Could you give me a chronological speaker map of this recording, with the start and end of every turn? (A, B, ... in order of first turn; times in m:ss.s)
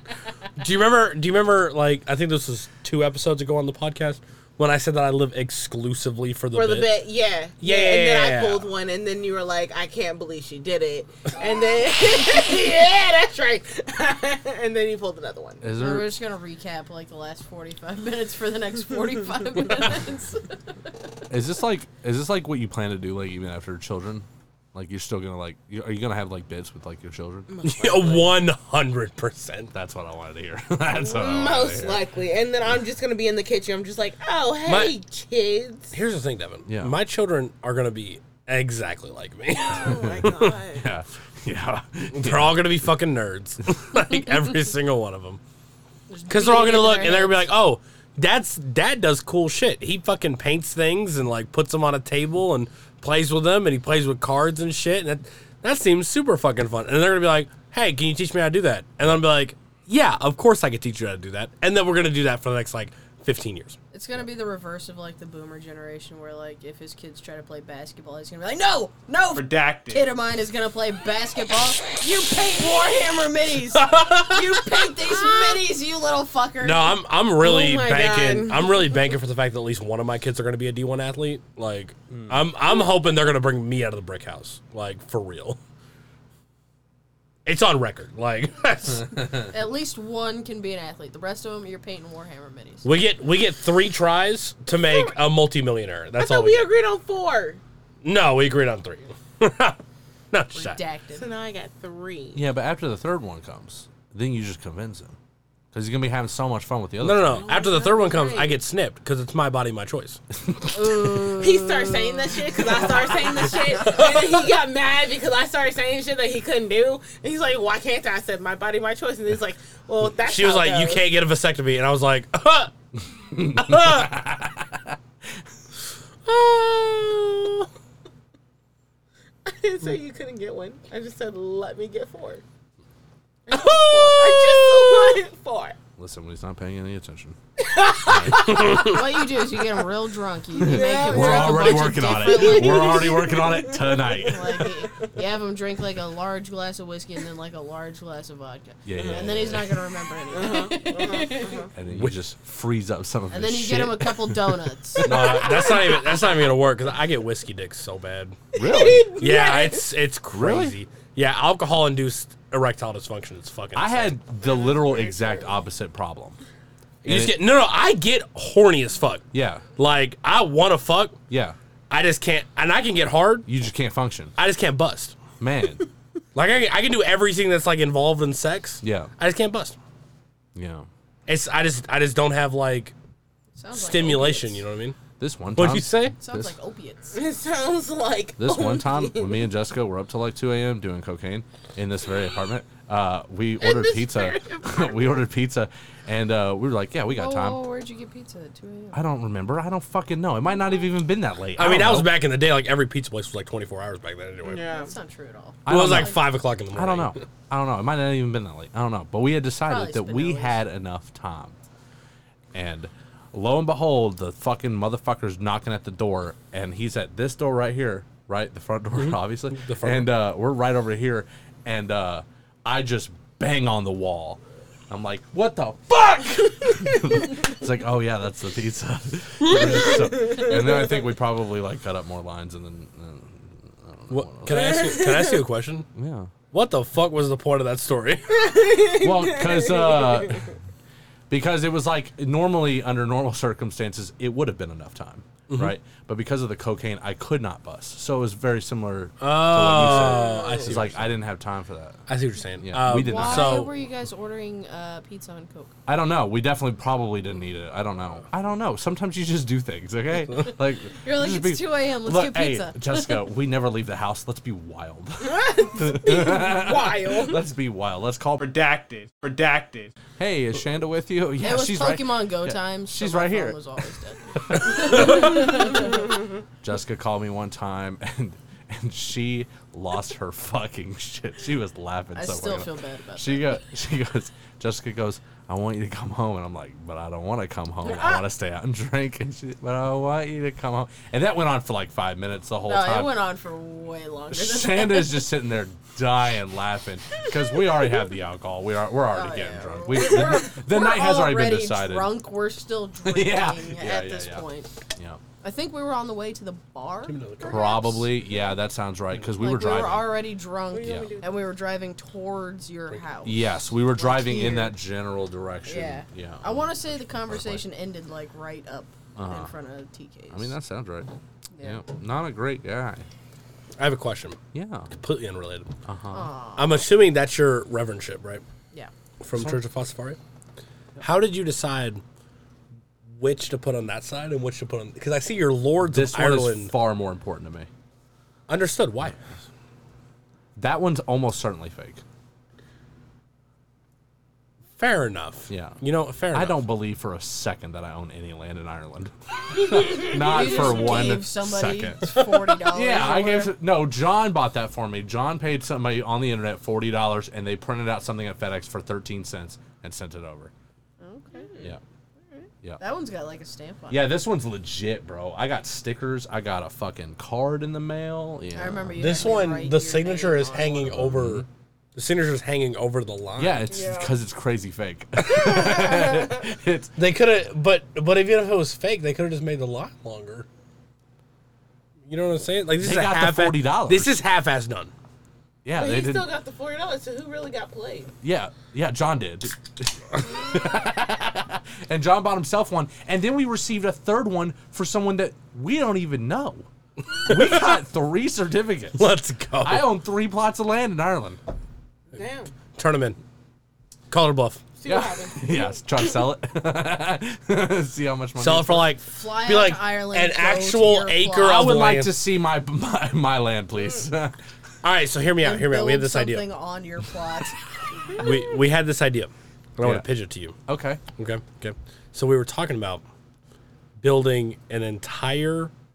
0:00.6-0:07.0 A
0:06.5-0:15.7 B
0:07.6-0:08.7 A
0:15.6-0:16.1 C
0:15.8-0:20.6 D
0:21.3-0:27.5 C
0:27.5-0:28.5 B
0:27.6-0:29.7 A
0:29.7-0:32.0 C
0:31.0-0:36.0 B
0:34.6-0:35.0 A
0:35.9-0:40.5 A
0:36.7-0:37.0 C
0:39.6-0:40.9 B
0:40.2-0:42.8 C
0:42.1-0:45.4 A
0:46.1-0:47.5 D
0:46.3-1:03.8 A
1:03.9-1:17.0 D
1:09.3-1:10.1 E
1:13.7-1:14.6 A
1:16.6-1:25.6 A
1:17.4-1:19.0 B
1:22.1-1:22.4 C
1:27.5-1:29.2 A
1:29.5-1:32.9 D
1:32.8-1:36.7 A
1:34.7-1:35.2 B
1:36.2-1:37.6 B
1:38.0-1:39.8 A
1:40.3-1:40.8 A
1:40.5-1:41.3 D
1:41.2-1:42.4 B
1:42.3-1:45.2 C
1:45.7-1:47.5 C
1:47.0-1:50.2 A
1:47.3-1:48.6 B
1:50.8-1:52.1 D
1:51.2-2:01.2 B
2:00.2-2:02.7 A
2:03.2-2:05.0 C
2:03.6-2:04.1 A
2:06.3-2:07.7 A
2:09.4-2:12.4 B
2:13.5-2:15.8 B
2:14.1-2:15.2 A
2:16.0-2:17.4 C
2:17.6-2:18.9 B
2:18.1-2:18.8 C
2:18.5-2:19.0 A
2:18.7-2:23.2 D
2:20.6-2:24.9 B
2:20.6-2:24.6 C
2:24.3-2:31.6 D
2:28.8-2:29.8 C
2:29.0-2:29.3 B
2:30.3-2:31.7 B
2:31.8-2:34.4 C
2:31.9-2:32.2 A
2:33.3-2:35.4 D
2:35.0-2:38.4 A
2:35.0-2:35.4 C
2:38.5-2:39.1 C
2:38.6-2:39.9 B
2:39.1-2:44.2 A
2:40.3-2:40.8 C
2:43.8-2:46.4 C
2:47.0-2:49.2 A
2:47.1-2:47.4 C
2:49.3-2:49.7 C
2:49.8-2:51.2 A
2:51.3-2:51.6 C
2:51.9-2:53.5 A
2:53.5-2:54.4 C
2:54.4-2:55.2 A
2:55.4-2:55.9 C
2:56.4-2:59.8 A
2:58.8-2:59.1 C
3:00.6-3:00.9 C
3:01.3-3:02.9 A
3:03.6-3:04.6 D
3:03.7-3:05.0 A
3:05.2-3:06.6 C
3:05.6-3:06.2 A
3:06.2-3:07.2 D
3:07.1-3:09.5 B
3:08.4-3:17.7 C
3:13.6-3:15.2 B
3:17.1-3:19.0 D
3:18.9-3:22.2 C
3:21.6-3:24.7 A
3:24.4-3:24.9 B
3:24.5-3:26.2 D
3:25.7-3:27.2 A
3:25.7-3:31.6 C
3:29.7-3:30.6 D
3:32.5-3:55.0 C
3:39.0-3:40.1 A
3:49.8-3:51.0 B
3:54.1-3:55.9 A
3:54.5-3:55.4 B
3:56.0-3:56.4 C
3:56.5-3:58.6 A
3:58.4-4:00.5 B
3:59.0-4:00.5 C
4:01.3-4:12.0 C
4:05.5-4:05.7 A
4:09.2-4:11.1 A
4:09.7-4:10.7 B
4:12.1-4:13.7 A
4:12.6-4:13.7 C
4:12.8-4:15.7 D
4:15.9-4:28.4 C
4:21.0-4:23.2 D
4:25.3-4:27.4 B
4:28.4-4:29.9 E
4:30.2-4:33.6 C
4:31.4-4:36.0 D
4:34.5-4:35.8 C
4:36.6-4:53.2 C
4:42.1-4:43.6 D
4:47.8-4:48.2 B
4:52.7-4:55.3 D
4:54.3-5:02.2 C
4:59.1-5:04.7 D
5:03.0-5:05.2 C
5:05.4-5:08.0 D
5:07.0-5:07.8 A
5:07.4-5:10.2 C
5:09.4-5:14.8 D
5:10.7-5:11.3 B
5:10.8-5:11.1 C
5:13.2-5:17.6 C
5:15.6-5:20.6 D
5:19.2-5:19.5 C
5:20.3-5:21.1 C
5:21.6-5:21.8 D
5:21.6-5:23.1 C
5:23.8-5:24.4 A
5:24.5-5:24.9 C
5:24.9-5:25.7 A
5:25.8-5:26.3 C
5:26.1-5:26.9 D
5:26.6-5:28.4 A
5:29.2-5:30.2 A
5:29.3-5:29.6 C
5:31.0-5:32.0 A
5:33.1-5:36.7 A
5:35.8-5:37.7 C
5:38.5-5:39.2 A
5:40.6-5:42.0 C
5:44.8-5:46.6 A
5:45.5-5:45.8 C
5:46.3-5:52.1 C
5:50.0-5:53.6 D
5:52.7-6:00.5 C
6:01.0-6:01.5 D
6:01.3-6:01.7 B
6:02.3-6:04.2 D
6:03.9-6:09.2 C
6:08.6-6:11.0 D
6:09.0-6:13.7 A
6:10.9-6:11.5 C
6:13.4-6:16.9 C
6:13.8-6:14.0 D
6:15.2-6:15.6 A
6:17.0-6:20.5 A
6:22.1-6:24.9 A
6:22.8-6:24.2 C
6:25.6-6:26.3 C
6:25.8-6:28.1 B
6:28.2-6:36.7 C
6:37.2-6:37.8 A
6:37.2-6:41.4 C
6:39.0-6:39.9 A
6:42.1-6:42.6 B
6:42.7-6:43.2 A
6:44.1-6:44.6 A
6:44.8-6:45.6 B
6:44.8-6:49.0 C
6:48.4-6:52.2 A
6:49.0-6:51.6 D
6:51.4-6:54.4 C
6:54.8-6:56.5 A
6:55.4-6:57.6 D
6:58.2-7:00.6 A
6:59.8-7:00.1 C
7:00.7-7:01.0 C
7:01.1-7:03.0 A
7:04.0-7:05.7 A